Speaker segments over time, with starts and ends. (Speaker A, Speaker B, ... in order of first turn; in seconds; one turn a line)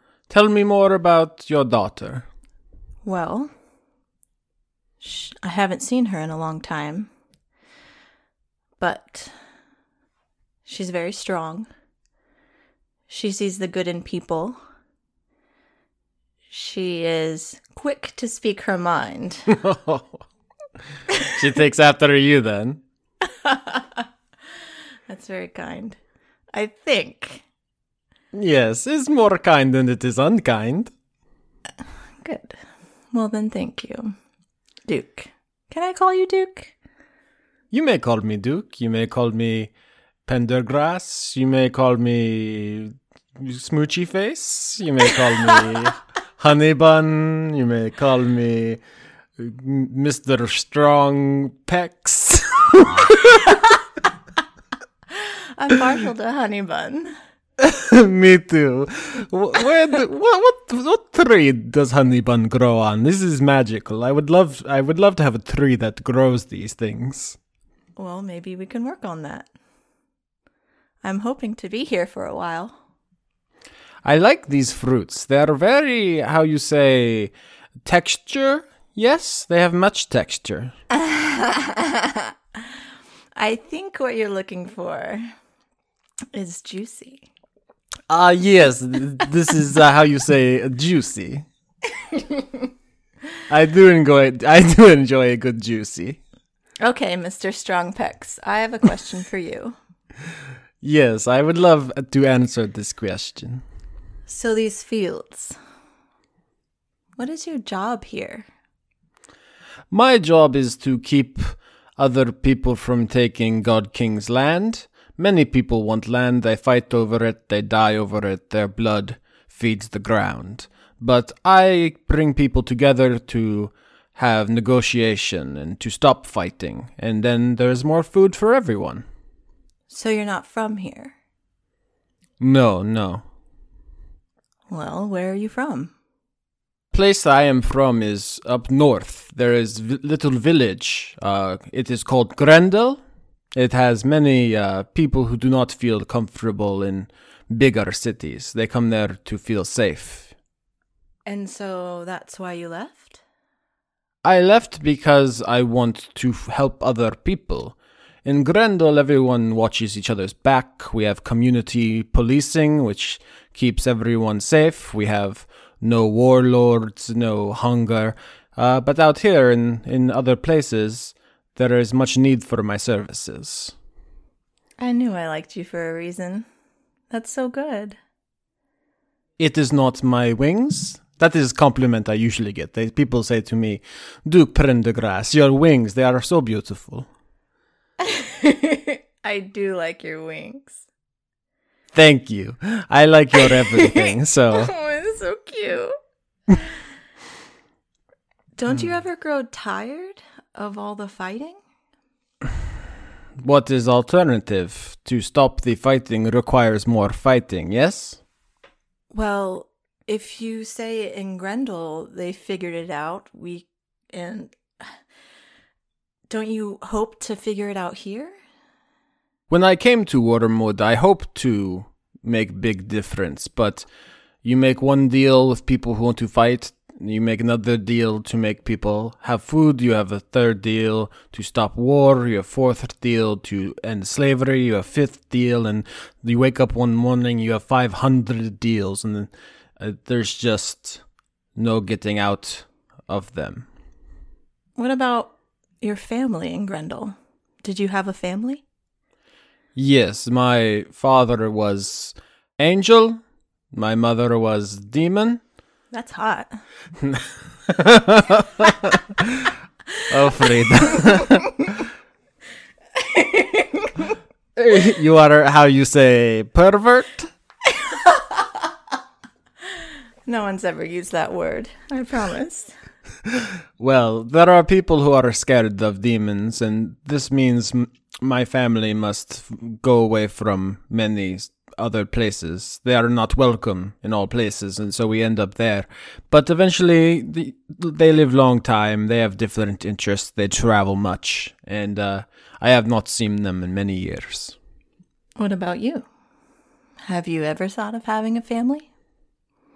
Speaker A: 0.3-2.2
Speaker B: 3.0-3.5
Speaker B: 5.0-7.1
Speaker B: 8.8-9.3
Speaker B: 10.7-11.7
Speaker B: 13.1-14.6
Speaker B: 16.5-19.6
Speaker A: 19.6-20.1
Speaker A: 21.4-22.8
Speaker B: 23.3-24.1
Speaker B: 25.1-26.0
Speaker B: 26.5-27.4
Speaker A: 28.3-30.9
Speaker B: 32.2-32.5
Speaker B: 33.1-34.1
Speaker B: 34.9-36.7
Speaker A: 37.7-39.7
Speaker A: 40.3-48.8
Speaker B: 45.4-45.7
Speaker A: 49.4-53.1
Speaker B: 55.1-57.1
Speaker A: 57.6-67.4
Speaker B: 68.0-69.5
Speaker B: 71.0-72.8
Speaker A: 74.0-77.3
Speaker A: 77.9-80.7
Speaker B: 83.4-85.2
Speaker B: 86.3-87.2
Speaker A: 88.1-91.4
Speaker B: 92.2-92.7
Speaker A: 93.5-96.2
Speaker B: 96.8-99.8
Speaker A: 100.8-103.6
Speaker B: 104.3-105.6
Speaker B: 107.2-108.5
Speaker A: 109.9-129.0
Speaker B: 129.9-131.1
Speaker A: 132.4-133.2
Speaker B: 134.7-135.9
Speaker A: 136.9-143.0
Speaker A: 143.6-150.3
Speaker B: 151.2-153.2
Speaker A: 154.2-157.7
Speaker A: 158.2-173.7
Speaker B: 174.8-176.5
Speaker B: 177.1-178.0
Speaker A: 179.4-187.1
Speaker B: 188.0-190.7
Speaker A: 191.9-194.7
Speaker B: 193.3-195.9
Speaker B: 198.6-201.6
Speaker A: 203.4-208.2
Speaker B: 209.1-214.9
Speaker B: 216.3-218.3
Speaker A: 219.5-223.8
Speaker A: 224.4-239.3
Speaker A: 239.8-241.0
Speaker A: 241.6-243.7
Speaker B: 244.8-248.6
Speaker A: 249.8-253.2
Speaker A: 253.7-255.4
Speaker B: 255.9-256.5
Speaker A: 257.7-258.4
Speaker A: 260.1-261.4
Speaker B: 260.3-261.7
Speaker B: 262.9-264.1
Speaker A: 264.6-267.3
Speaker B: 267.7-268.7
Speaker B: 270.2-272.7
Speaker A: 273.8-294.5
Speaker B: 295.4-296.1
Speaker B: 297.0-298.9